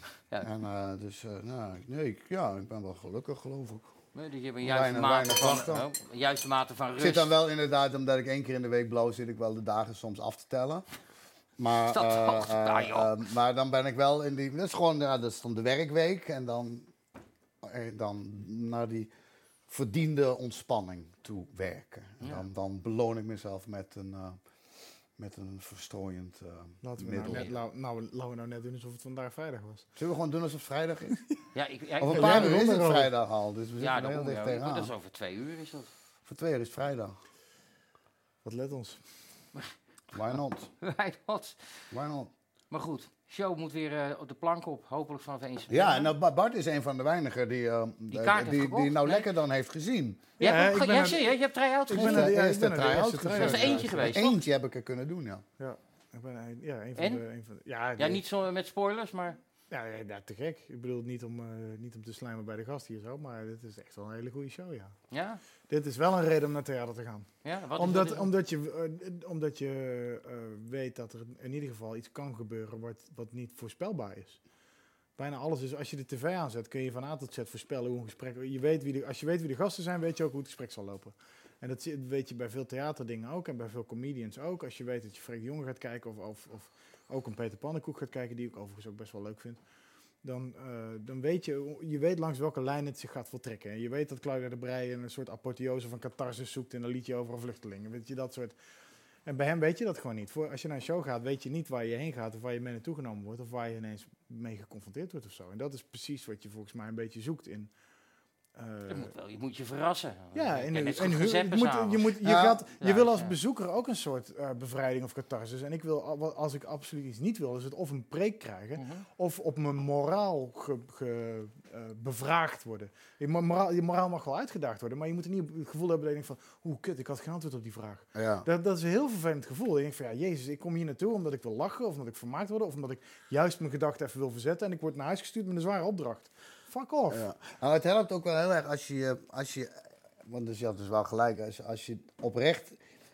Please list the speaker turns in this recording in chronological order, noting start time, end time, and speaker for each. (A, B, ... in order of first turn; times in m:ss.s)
0:00.4-0:03.9 A
0:04.1-0:07.3 B
0:04.6-0:05.8 A
0:07.0-0:10.8 A
0:11.6-0:16.9 A
0:11.9-0:13.2 B
0:17.6-0:19.1 A
0:19.7-0:24.4 A
0:25.2-0:27.5 A
0:26.8-0:29.8 C
0:27.2-0:27.5 B
0:30.0-0:31.2 A
0:31.5-0:32.6 B
0:32.0-0:34.9 A
0:32.1-0:33.1 C
0:33.8-0:35.9 B
0:36.2-0:37.2 A
0:38.4-0:39.0 C
0:40.1-0:40.7 A
0:40.8-0:41.6 B
0:41.9-0:42.3 A
0:42.7-0:46.1 B
0:45.7-0:50.3 A
0:48.1-0:49.3 B
0:50.4-0:51.2 C
0:50.4-0:52.3 B
0:51.9-0:54.2 C
0:51.9-0:55.4 A
0:53.3-0:54.4 B
0:55.6-0:58.2 C
0:57.0-0:57.2 B
0:58.0-0:59.4 B
0:59.7-1:04.9 C
1:05.1-1:05.4 B
1:05.7-1:14.4 C
1:07.4-1:08.3 B
1:15.2-1:29.6 C
1:30.2-1:38.6 C
1:39.2-1:47.7 C
1:48.5-1:49.1 C
1:48.9-1:52.2 B
1:50.3-2:17.2 C
1:52.2-1:52.6 A
1:52.8-1:53.3 B
1:58.8-1:59.0 B
2:08.1-2:08.4 A
2:17.1-2:19.7 A
2:20.2-2:22.8 A